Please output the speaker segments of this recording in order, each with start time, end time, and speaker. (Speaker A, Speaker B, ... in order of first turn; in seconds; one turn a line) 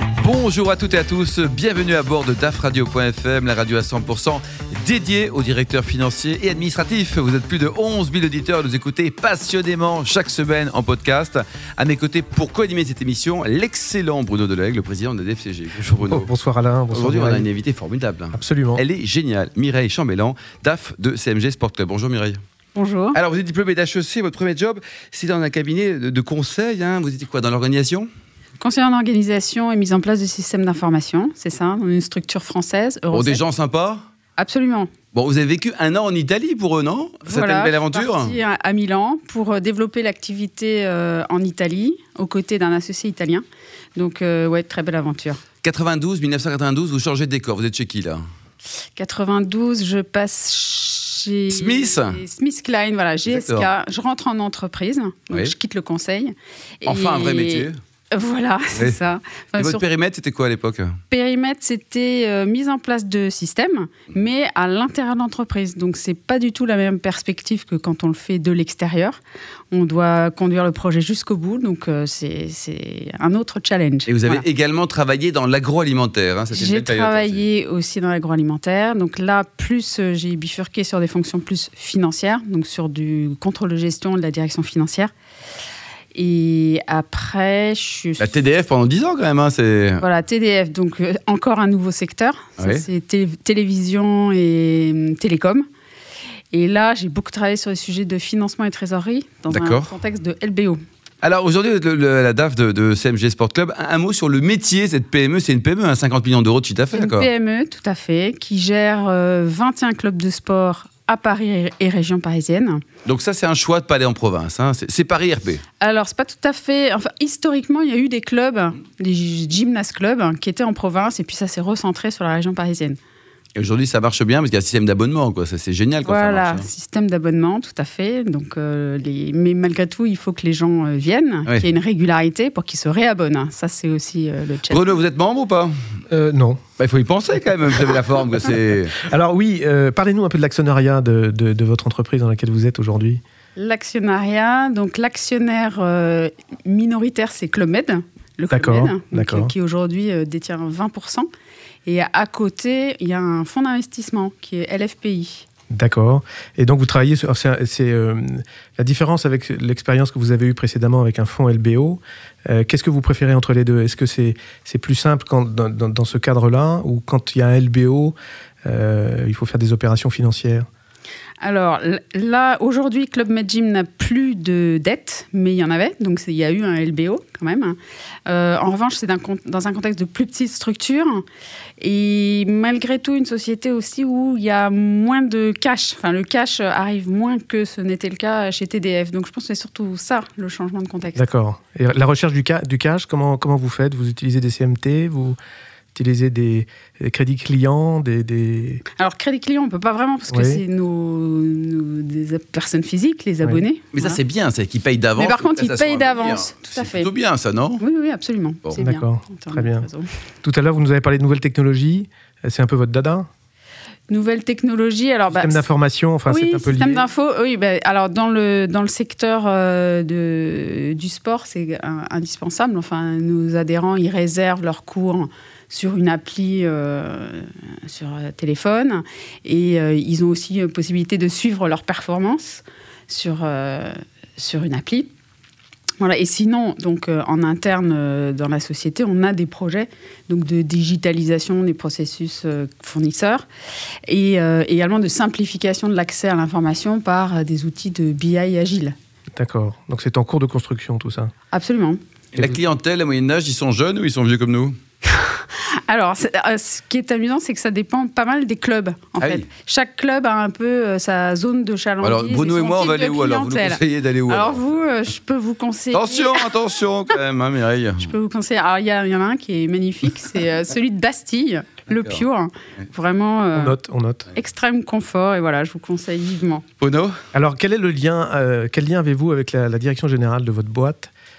Speaker A: 0.2-16.3
Speaker B: 16.0-17.5
Speaker A: 16.9-22.4
Speaker B: 18.3-18.8
Speaker C: 22.8-23.2
Speaker A: 23.1-28.1
Speaker C: 28.6-33.4
Speaker A: 33.1-34.0
Speaker C: 34.4-34.9
Speaker A: 35.1-38.4
Speaker C: 37.2-43.4
Speaker C: 44.0-45.4
Speaker A: 45.6-48.2
Speaker C: 49.0-59.9
Speaker A: 51.5-52.2
Speaker A: 53.3-53.7
Speaker A: 56.9-57.8
Speaker A: 59.6-61.0
Speaker C: 61.1-69.2
Speaker C: 69.7-74.4
Speaker A: 74.1-77.4
Speaker C: 76.5-85.1
Speaker C: 86.1-88.4
Speaker A: 88.2-90.0
Speaker C: 90.0-95.7
Speaker A: 92.6-92.8
Speaker C: 96.5-100.8
Speaker A: 99.5-99.9
Speaker A: 101.2-107.3
Speaker C: 106.9-112.8
Speaker A: 113.1-115.6
Speaker C: 115.8-123.0
Speaker A: 123.5-126.7
Speaker C: 126.0-134.9
Speaker A: 134.7-135.7
Speaker B: 136.1-136.6
Speaker A: 136.8-139.0
Speaker B: 139.0-143.2
Speaker C: 143.6-151.3
Speaker B: 148.5-149.5
Speaker C: 151.8-155.5
Speaker B: 155.7-168.2
Speaker B: 168.7-170.7
Speaker C: 171.4-181.2
Speaker C: 181.8-191.2
Speaker B: 191.2-195.4
Speaker B: 195.9-198.8
Speaker C: 199.0-204.2
Speaker B: 200.3-200.6
Speaker A: 203.9-207.8
Speaker C: 205.2-207.1
Speaker C: 207.8-210.1
Speaker B: 208.8-209.9
Speaker B: 210.4-213.3
Speaker C: 214.1-215.6
Speaker B: 215.3-217.1
Speaker C: 216.3-235.1
Speaker C: 236.0-243.5
Speaker C: 244.1-248.9
Speaker B: 249.4-251.3
Speaker C: 251.5-252.0
Speaker A: 252.3-254.8
Speaker C: 255.2-266.5
Speaker A: 259.2-259.5
Speaker A: 262.0-264.6
Speaker A: 265.9-268.1
Speaker C: 268.0-273.8
Speaker B: 273.5-274.3
Speaker C: 274.3-276.6
Speaker A: 276.8-277.1
Speaker B: 277.3-281.1